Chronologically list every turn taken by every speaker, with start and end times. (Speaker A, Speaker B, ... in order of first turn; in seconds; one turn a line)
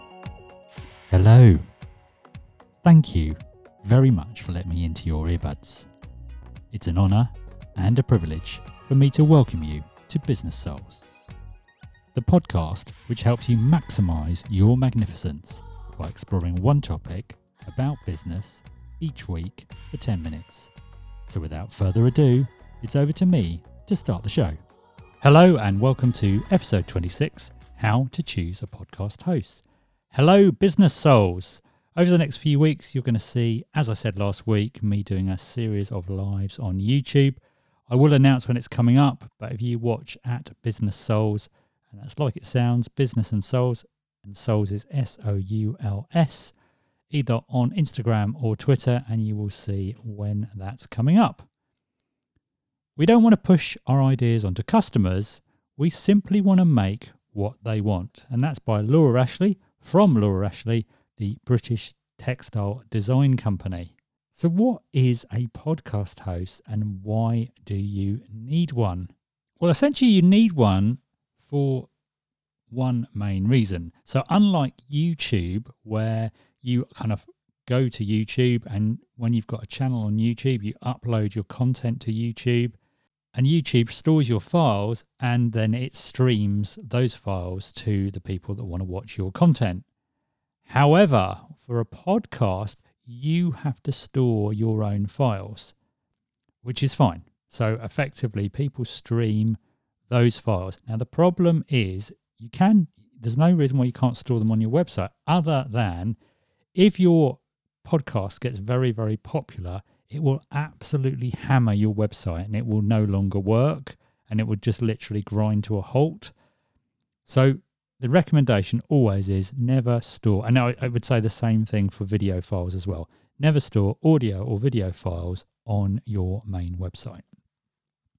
Speaker A: 1.1-1.6
Speaker A: 2.8-5.9
Speaker A: 6.7-11.1
Speaker A: 12.1-20.7
Speaker A: 21.3-24.6
Speaker A: 25.2-46.5
Speaker A: 47.1-51.5
Speaker A: 53.0-71.9
Speaker A: 72.7-82.8
Speaker A: 83.3-89.8
Speaker A: 90.7-95.7
Speaker A: 96.6-99.6
Speaker A: 100.1-106.2
Speaker A: 106.7-116.3
Speaker A: 117.2-127.2